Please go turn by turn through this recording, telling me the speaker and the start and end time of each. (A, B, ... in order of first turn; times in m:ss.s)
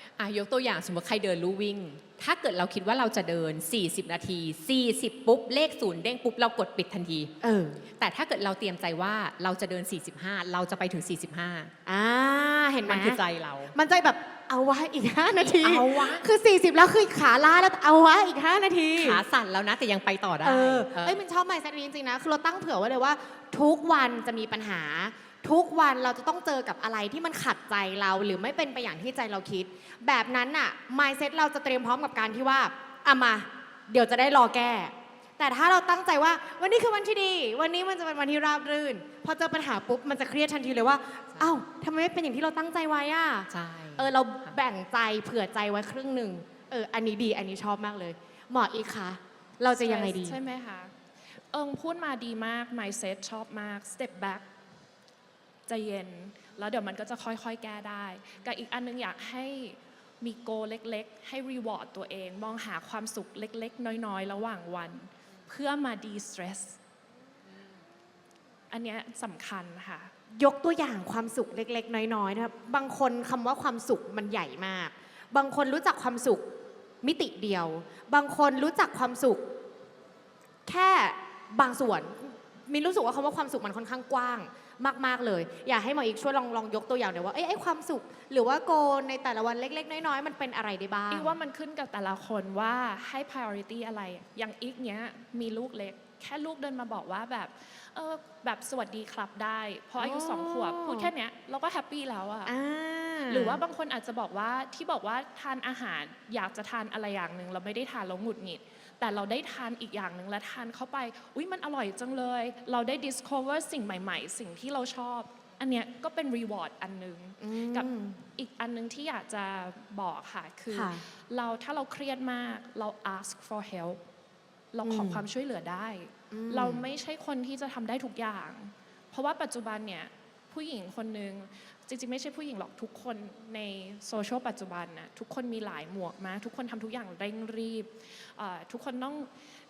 0:00.2-0:07.3 A
0:07.4-0:07.8 B
0:08.0-0:11.7 A
0:11.9-0:13.2 B
0:12.8-0:13.8 A
0:13.7-0:19.2 B
0:15.4-0:16.3 A
0:19.0-0:21.2 A
0:20.4-0:50.4 B
0:43.5-0:44.5 A
0:49.8-0:54.5 C
0:55.7-1:06.8 C
1:08.7-1:10.1 C
1:10.4-1:16.5 B
1:17.0-1:19.4 B
1:20.6-1:31.4 B
1:31.1-1:42.5 C
1:40.0-1:41.1 B
1:42.5-1:43.6 B
1:43.3-2:04.0 C
1:57.4-1:58.2 B
2:00.7-2:01.0 B
2:04.7-2:19.3 C
2:04.8-2:05.2 B
2:06.3-2:06.9 B